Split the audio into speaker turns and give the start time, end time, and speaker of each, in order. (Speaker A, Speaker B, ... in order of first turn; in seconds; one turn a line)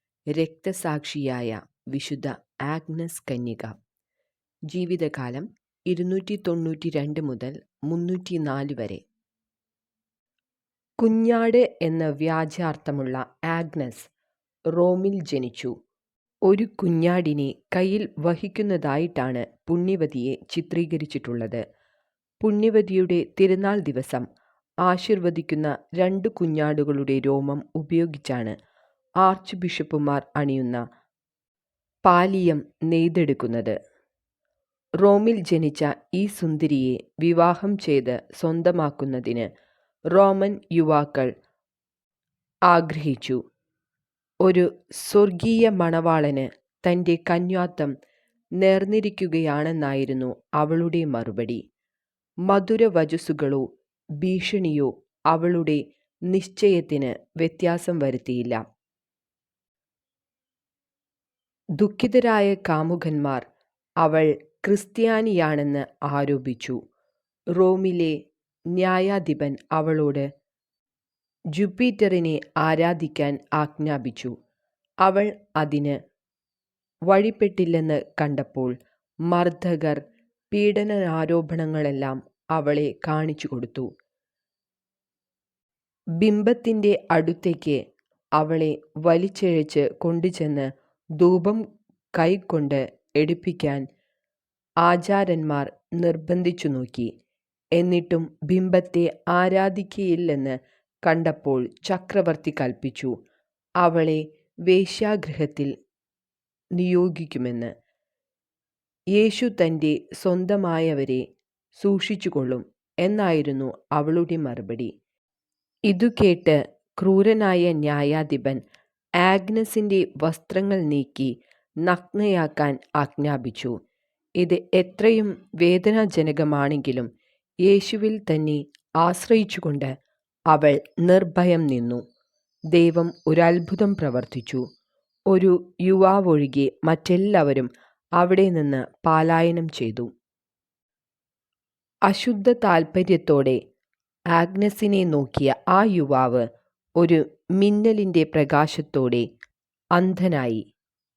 Speaker A: 0.3-3.7
Speaker A: 4.7-9.0
Speaker A: 11.0-14.1
Speaker A: 14.7-15.7
Speaker A: 16.5-21.6
Speaker A: 22.4-24.2
Speaker A: 24.9-28.5
Speaker A: 29.2-30.8
Speaker A: 32.0-33.8
Speaker A: 35.0-39.5
Speaker A: 40.1-41.3
Speaker A: 42.7-43.4
Speaker A: 44.4-47.9
Speaker A: 48.6-51.6
Speaker A: 52.5-53.6
Speaker A: 54.2-58.6
Speaker A: 61.8-63.4
Speaker A: 64.0-66.8
Speaker A: 67.6-68.1
Speaker A: 68.7-70.3
Speaker A: 71.5-74.3
Speaker A: 75.0-76.0
Speaker A: 77.1-78.7
Speaker A: 79.3-80.0
Speaker A: 80.5-83.9
Speaker A: 86.2-87.8
Speaker A: 88.4-91.6
Speaker A: 92.1-93.8
Speaker A: 94.8-97.1
Speaker A: 97.8-103.1
Speaker A: 103.8-105.7
Speaker A: 106.8-107.7
Speaker A: 109.2-111.2
Speaker A: 111.8-114.9
Speaker A: 115.9-118.6
Speaker A: 119.2-121.3
Speaker A: 121.8-123.7
Speaker A: 124.4-127.1
Speaker A: 127.7-129.9
Speaker A: 130.5-132.0
Speaker A: 132.7-134.6
Speaker A: 135.3-140.1
Speaker A: 142.1-143.6
Speaker A: 144.3-146.5
Speaker A: 147.0-149.3
Speaker A: 150.0-150.6